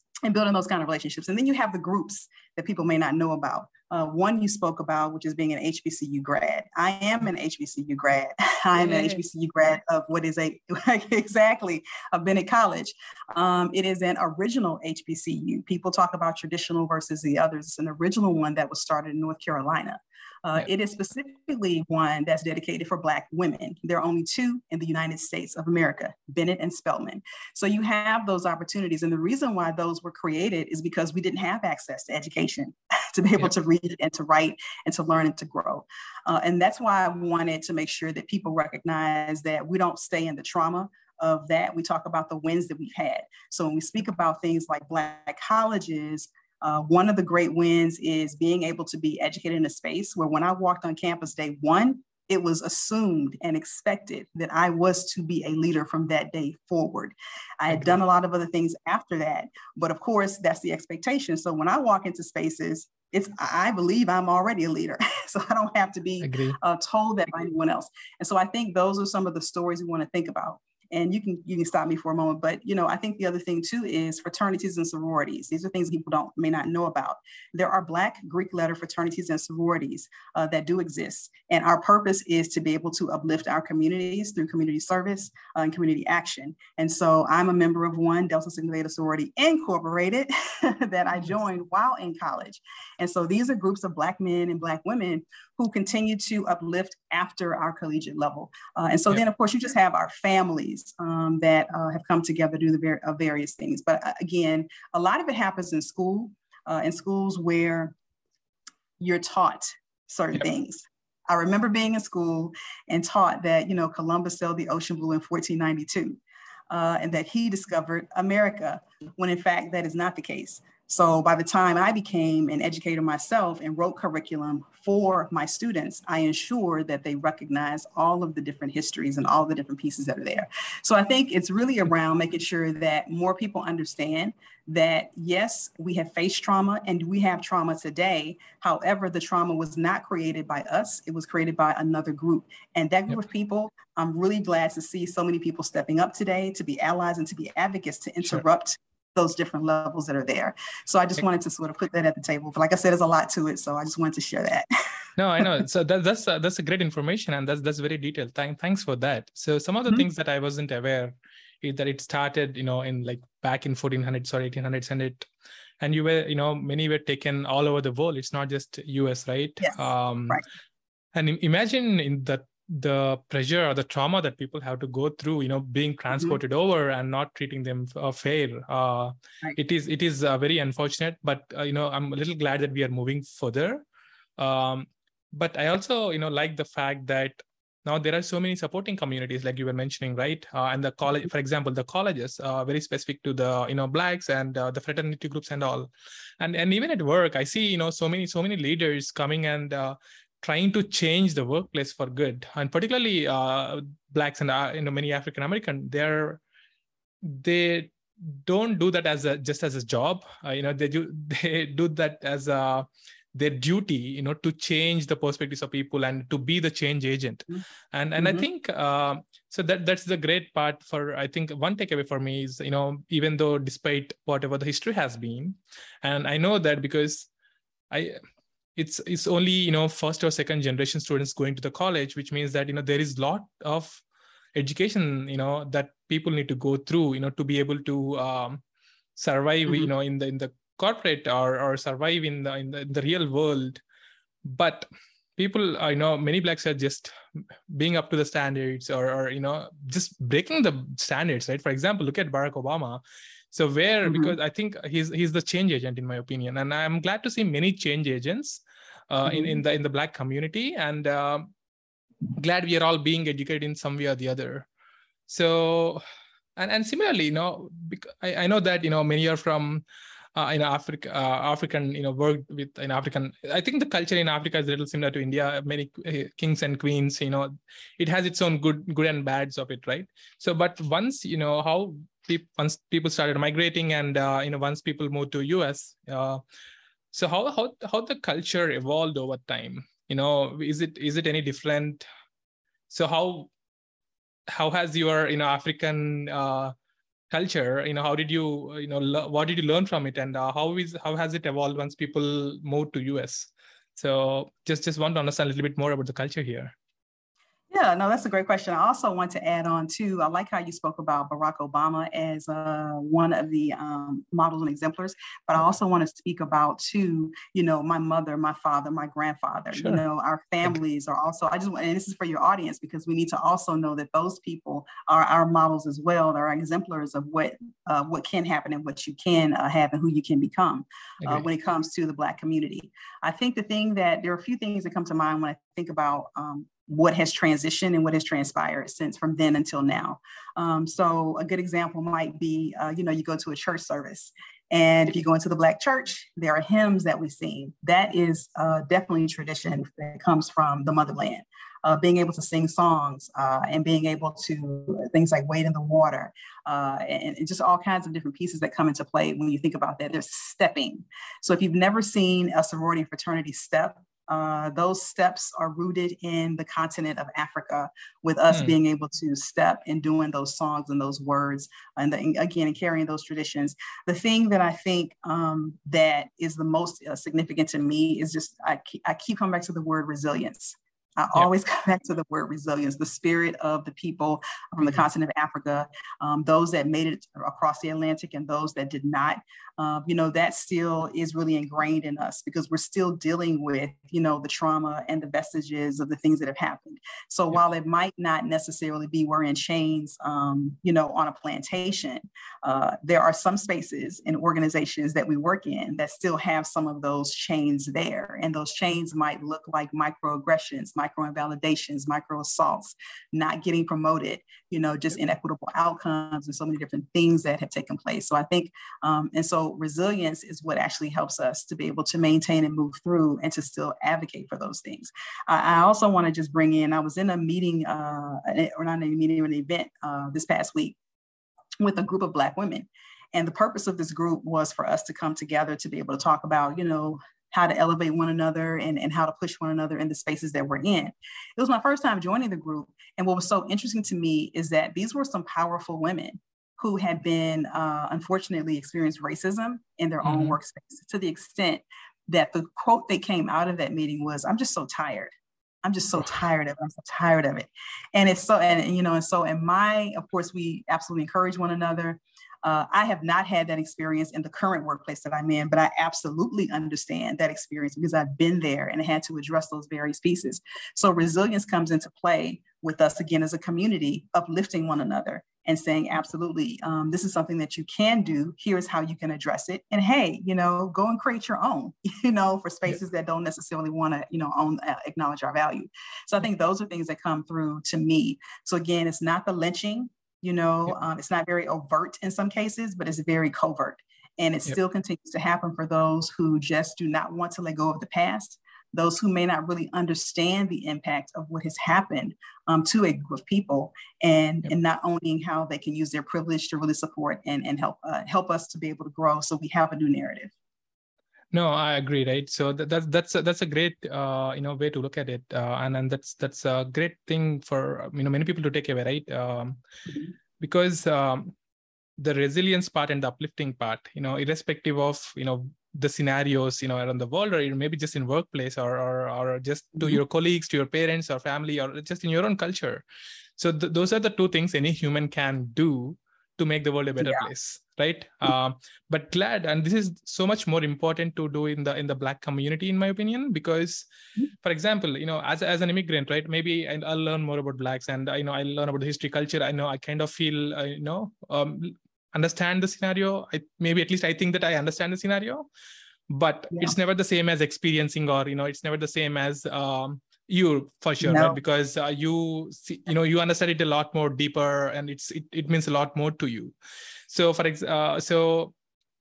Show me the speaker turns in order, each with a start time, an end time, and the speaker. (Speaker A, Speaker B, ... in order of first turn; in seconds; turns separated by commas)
Speaker A: 0.2-107.9, Speaker B: 8.8-9.2, Speaker B: 66.2-66.6, Speaker A: 109.0-154.7, Speaker B: 155.2-165.3, Speaker B: 165.8-170.4, Speaker A: 169.6-170.4, Speaker B: 171.1-183.8, Speaker B: 184.4-206.4, Speaker B: 207.2-227.3, Speaker A: 218.2-218.4, Speaker B: 227.9-228.2, Speaker B: 228.8-234.0, Speaker B: 234.5-238.6, Speaker B: 239.2-243.8, Speaker B: 244.4-247.1, Speaker B: 247.7-261.5, Speaker A: 254.0-254.3, Speaker A: 259.2-259.6, Speaker B: 262.4-264.7, Speaker B: 265.3-266.0, Speaker B: 266.6-269.8, Speaker B: 270.3-286.4, Speaker B: 287.1-292.0, Speaker B: 292.9-293.5, Speaker B: 294.5-296.7, Speaker B: 297.3-306.7, Speaker A: 307.7-431.0, Speaker B: 319.7-320.0, Speaker A: 431.8-455.3, Speaker B: 450.2-450.6, Speaker A: 455.8-510.5, Speaker B: 511.5-519.8, Speaker B: 520.6-521.5, Speaker B: 522.2-533.0, Speaker B: 533.6-544.0, Speaker A: 537.2-537.5, Speaker B: 544.6-555.6, Speaker B: 556.3-566.7, Speaker A: 561.2-561.6, Speaker B: 567.3-568.7